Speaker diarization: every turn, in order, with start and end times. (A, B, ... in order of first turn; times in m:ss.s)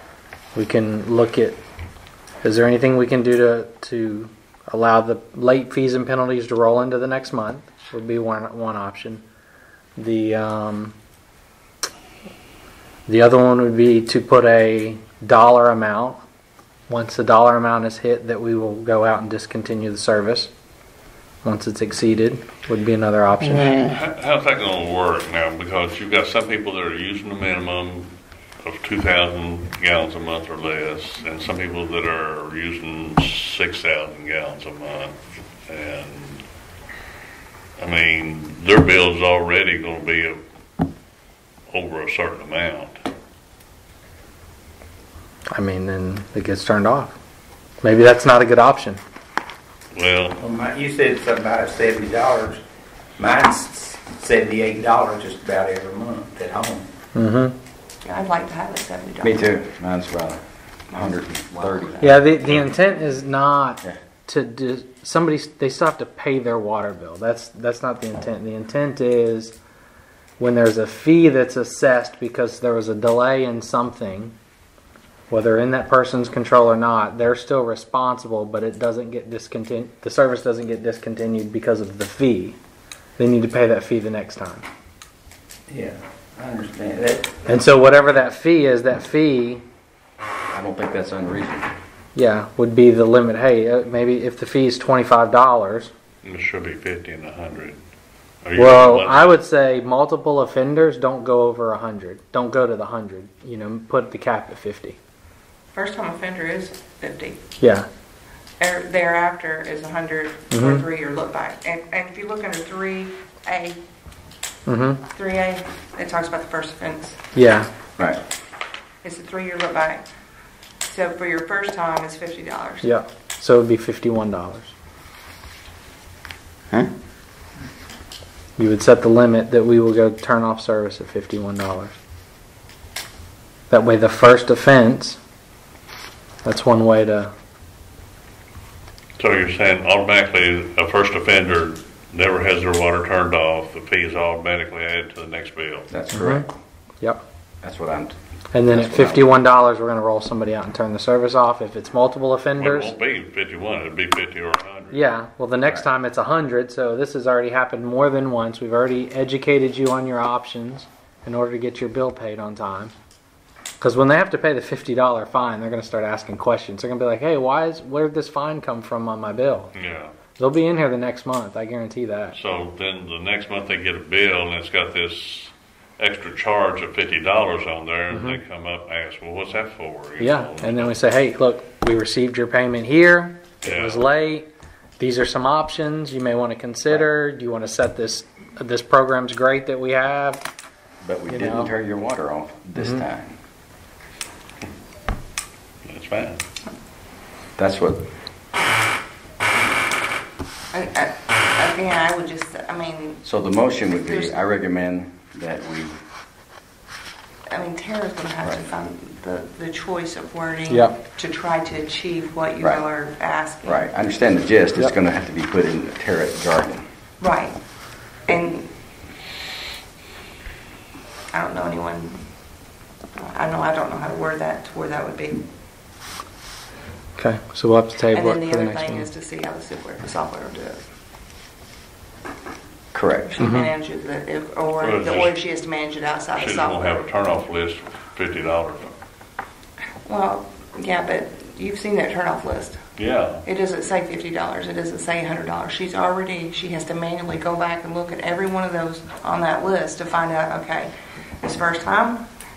0:00.5-0:01.6 A
0:02.4-0:09.2 A
0:10.0-0:10.9 A
0:13.1-0:16.2 A
0:16.9-0:20.5 A
0:21.4-0:23.8 A
0:23.8-0:35.2 B
0:35.7-0:36.4 B
0:37.8-0:40.4 B
0:41.7-0:43.0 B
0:45.5-0:47.2 A
0:47.8-0:49.0 A
0:49.9-0:50.4 B
0:50.4-0:52.6 C
0:53.2-0:56.8 C
0:57.1-0:57.6 A
0:58.0-0:59.6 D
0:59.2-1:00.4 E
1:00.9-1:02.2 D
1:00.9-1:02.1 E
1:02.0-1:09.5 A
1:10.4-1:14.3 A
1:15.3-1:22.6 A
1:23.2-1:24.6 A
1:25.8-1:27.4 C
1:27.4-1:29.6 A
1:30.5-1:31.7 E
1:32.1-1:35.9 A
1:36.2-1:37.8 B
1:38.4-1:39.3 B
1:38.6-1:45.0 A
1:45.7-1:47.4 D
1:47.6-1:47.9 A
1:48.6-1:53.8 D
1:50.5-1:50.8 A
1:54.6-1:55.0 A
1:55.1-1:57.2 D
1:57.3-1:57.7 A
1:59.0-2:00.0 D
2:00.9-2:02.9 D
2:02.8-2:04.7 A
2:08.6-2:12.0 A
2:13.7-2:15.2 A
2:16.4-2:17.3 A
2:19.2-2:25.9 B
2:25.9-2:26.5 E
2:26.1-2:26.4 A
2:27.6-2:28.1 E
2:28.5-2:32.9 A
2:28.7-2:29.3 E
2:32.6-2:35.0 B
2:34.9-2:42.9 A
2:43.8-2:49.7 A
2:49.7-2:50.1 B
2:50.4-2:52.4 A
2:52.3-3:01.0 B
2:58.1-2:58.4 A
3:00.2-3:04.5 A
3:03.6-3:04.0 B
3:05.0-3:10.4 A
3:11.0-3:13.4 E
3:11.3-3:11.7 A
3:12.8-3:13.0 A
3:15.8-3:16.4 B
3:17.6-3:18.0 E
3:20.7-3:23.2 D
3:23.2-3:25.9 E
3:23.9-3:24.3 D
3:27.5-3:33.8 D
3:30.7-3:31.0 A
3:33.6-3:36.8 E
3:37.2-3:37.6 D
3:38.3-3:38.7 D
3:41.3-3:42.2 D
3:43.2-3:45.4 D
3:47.2-3:49.1 A
3:48.1-3:50.8 D
3:52.9-3:53.3 E
3:53.3-3:57.0 D
3:53.4-3:53.7 A
3:54.8-3:55.4 B
3:56.3-3:58.9 B
4:00.0-4:02.8 D
4:03.0-4:03.4 B
4:03.4-4:10.9 D
4:11.4-4:12.2 D